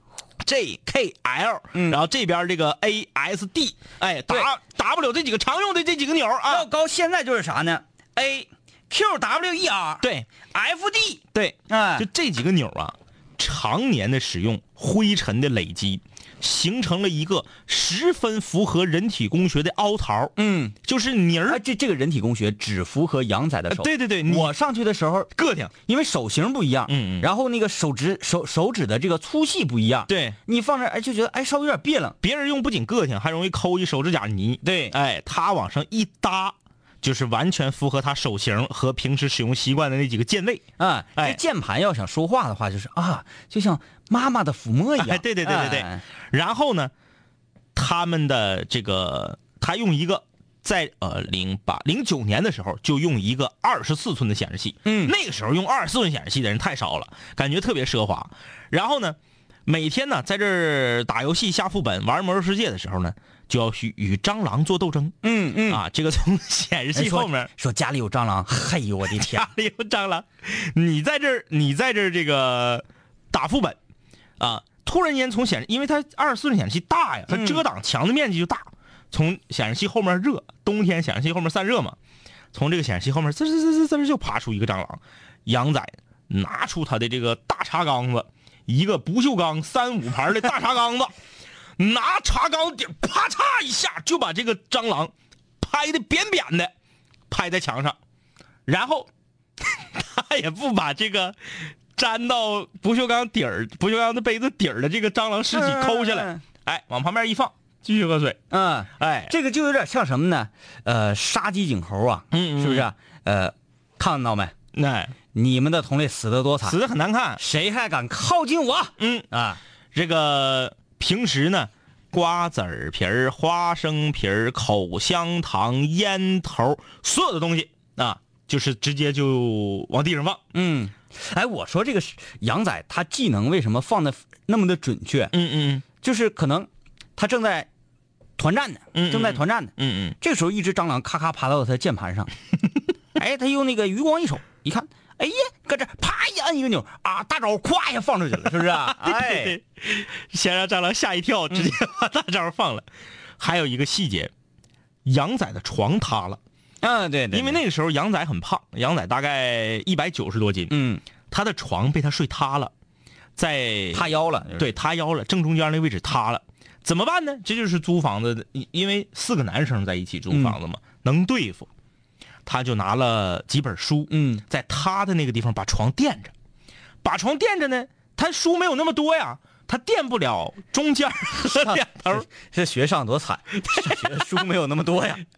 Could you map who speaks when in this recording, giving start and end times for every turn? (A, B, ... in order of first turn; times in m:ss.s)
0:00.4-0:06.7 A
0:01.7-0:02.0 B
0:06.5-0:12.1 B
0:10.0-0:10.3 A
0:11.3-0:21.6 A
0:20.4-0:20.8 B
0:21.5-0:25.3 B
0:23.7-0:24.5 A
0:25.4-0:25.7 A
0:25.8-0:32.2 B
0:26.9-0:27.3 A
0:30.1-0:30.4 A
0:32.2-0:40.6 A
0:34.6-0:35.0 B
0:40.8-0:46.0 B
0:45.0-0:46.9 A
0:47.8-1:07.5 A
0:54.8-0:55.1 B
1:05.2-1:05.8 B
1:06.9-1:09.5 B
1:09.1-1:13.8 A
1:14.4-1:22.0 A
1:17.3-1:17.6 B
1:22.5-1:31.1 A
1:31.8-1:36.7 A
1:37.3-1:38.0 A
1:38.7-1:39.1 A
1:39.6-1:48.4 A
1:45.5-1:46.4 B
1:48.5-1:54.5 B
1:49.0-1:49.3 A
1:52.3-1:52.9 A
1:54.7-1:55.1 A
1:55.3-1:56.8 B
1:56.6-1:57.4 A
1:57.4-1:59.6 B
1:59.0-1:59.3 A
1:59.9-2:10.4 A
2:10.5-2:15.3 B
2:15.3-2:15.8 A
2:16.0-2:17.7 B
2:18.4-2:22.3 B
2:18.9-2:20.2 A
2:23.2-2:29.6 B
2:28.5-2:32.9 A
2:33.4-2:34.3 A
2:35.0-2:36.4 A
2:36.8-2:37.6 B
2:37.3-2:40.7 A
2:40.7-2:41.0 B
2:41.3-2:42.7 A
2:43.4-2:51.7 A
2:43.9-2:44.7 B
2:50.3-2:50.6 B
2:52.5-2:56.3 A
2:54.1-2:54.4 B
2:57.0-3:02.2 A
3:01.5-3:05.2 B
3:03.6-3:04.4 A